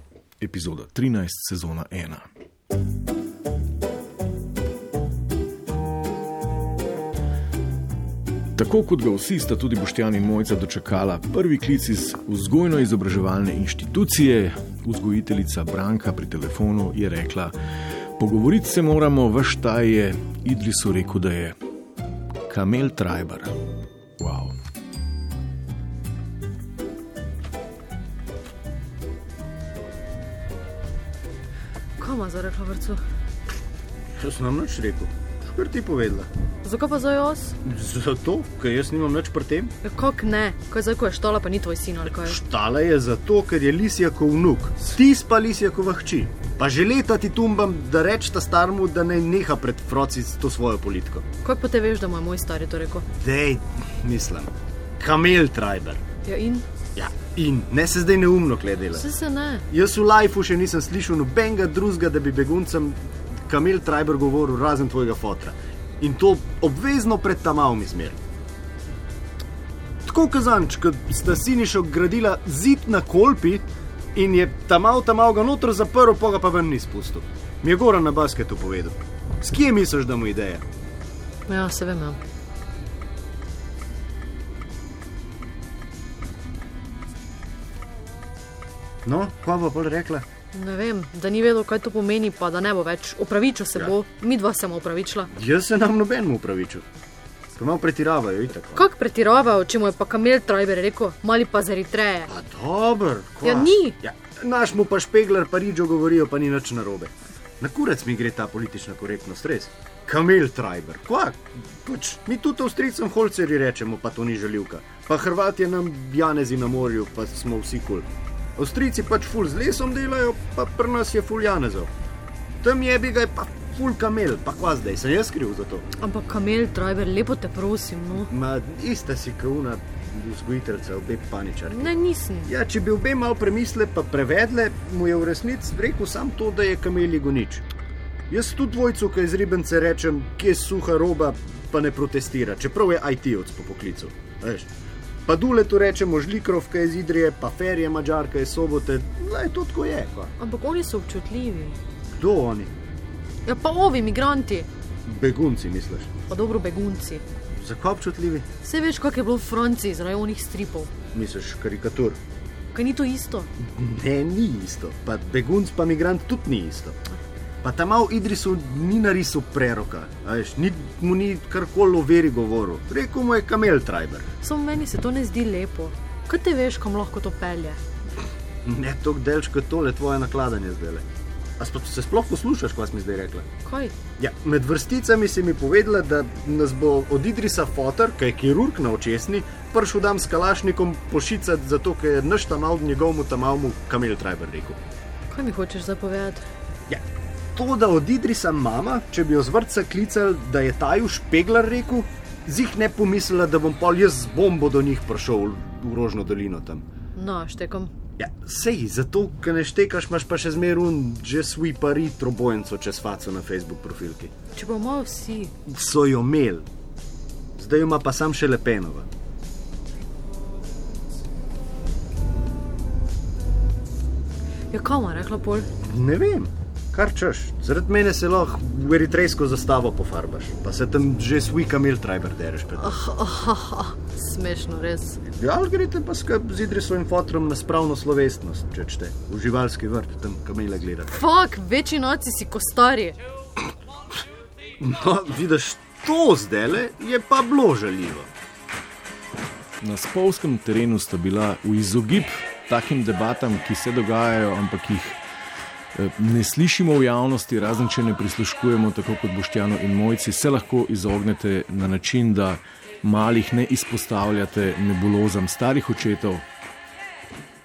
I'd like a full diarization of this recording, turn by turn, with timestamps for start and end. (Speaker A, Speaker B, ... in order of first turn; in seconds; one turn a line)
Speaker A: 0.4-2.3
Speaker A: 8.6-17.5
Speaker A: 18.2-21.6
Speaker A: 22.5-23.5
Speaker A: 24.2-24.5
Speaker B: 32.0-33.0
Speaker C: 34.2-36.3
Speaker B: 36.6-37.5
Speaker C: 37.6-39.7
Speaker B: 39.8-42.4
Speaker C: 42.0-51.2
Speaker B: 51.4-53.0
Speaker C: 53.1-56.0
Speaker B: 56.2-56.6
Speaker C: 57.0-59.0
Speaker B: 59.0-59.6
Speaker C: 59.7-68.2
Speaker C: 70.0-80.6
Speaker B: 81.5-82.2
Speaker C: 89.0-90.2
Speaker B: 90.5-95.3
Speaker C: 95.3-96.8
Speaker C: 97.5-98.9
Speaker B: 98.8-102.3
Speaker C: 102.3-121.9
Speaker B: 103.4-104.0
Speaker C: 122.6-125.9
Speaker B: 126.0-128.3
Speaker C: 128.2-131.9
Speaker B: 131.7-132.5
Speaker C: 132.4-137.7
Speaker C: 138.3-144.7
Speaker C: 145.2-150.3
Speaker B: 150.4-151.8
Speaker C: 152.1-152.7
Speaker B: 153.5-154.7
Speaker C: 155.1-156.1
Speaker B: 156.3-157.2
Speaker C: 157.5-158.5
Speaker B: 158.6-160.9
Speaker C: 161.1-162.2
Speaker B: 162.7-163.5
Speaker C: 163.6-167.0
Speaker C: 167.6-174.3
Speaker B: 174.4-177.8
Speaker C: 178.7-181.0
Speaker C: 181.6-183.5
Speaker B: 183.7-184.0
Speaker C: 184.2-194.8
Speaker B: 195.3-196.4
Speaker C: 197.5-206.8
Speaker B: 207.2-207.9
Speaker C: 208.2-214.3
Speaker B: 214.5-215.5
Speaker C: 215.7-216.7
Speaker C: 217.6-219.1
Speaker B: 224.7-225.7
Speaker C: 225.8-233.0
Speaker B: 232.8-235.2
Speaker C: 235.2-241.1
Speaker B: 241.1-243.2
Speaker C: 244.8-248.3
Speaker A: 249.8-255.2
Speaker A: 255.9-266.5